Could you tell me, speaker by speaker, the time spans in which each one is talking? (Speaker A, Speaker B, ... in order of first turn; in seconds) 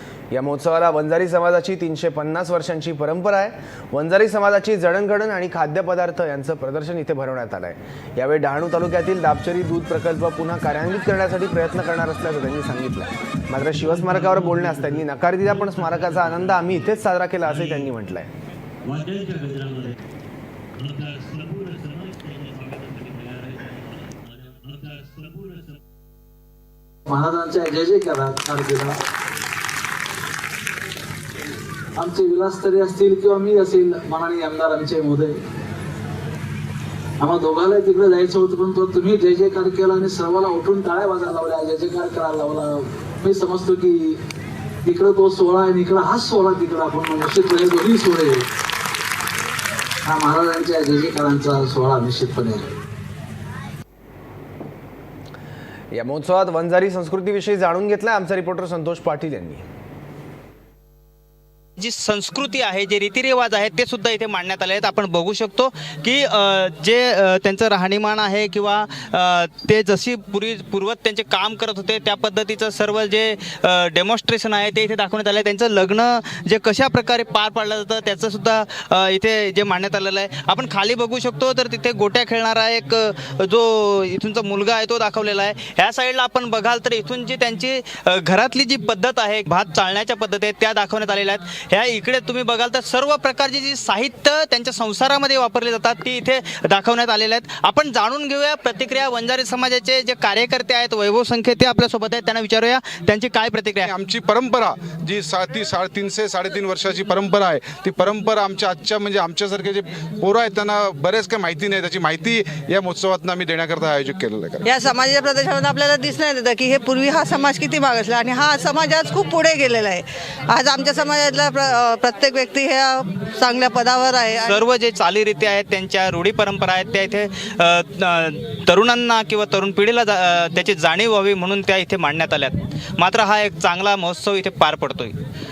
Speaker A: 0.3-18.3, 55.9-59.6
Speaker B: 20.9-23.6, 24.6-25.6
Speaker C: 27.1-29.0, 31.9-35.4, 37.2-44.2, 44.8-48.5, 50.0-52.7
Speaker D: 61.8-103.9, 124.4-135.2
Speaker E: 103.8-114.7
Speaker F: 114.7-124.6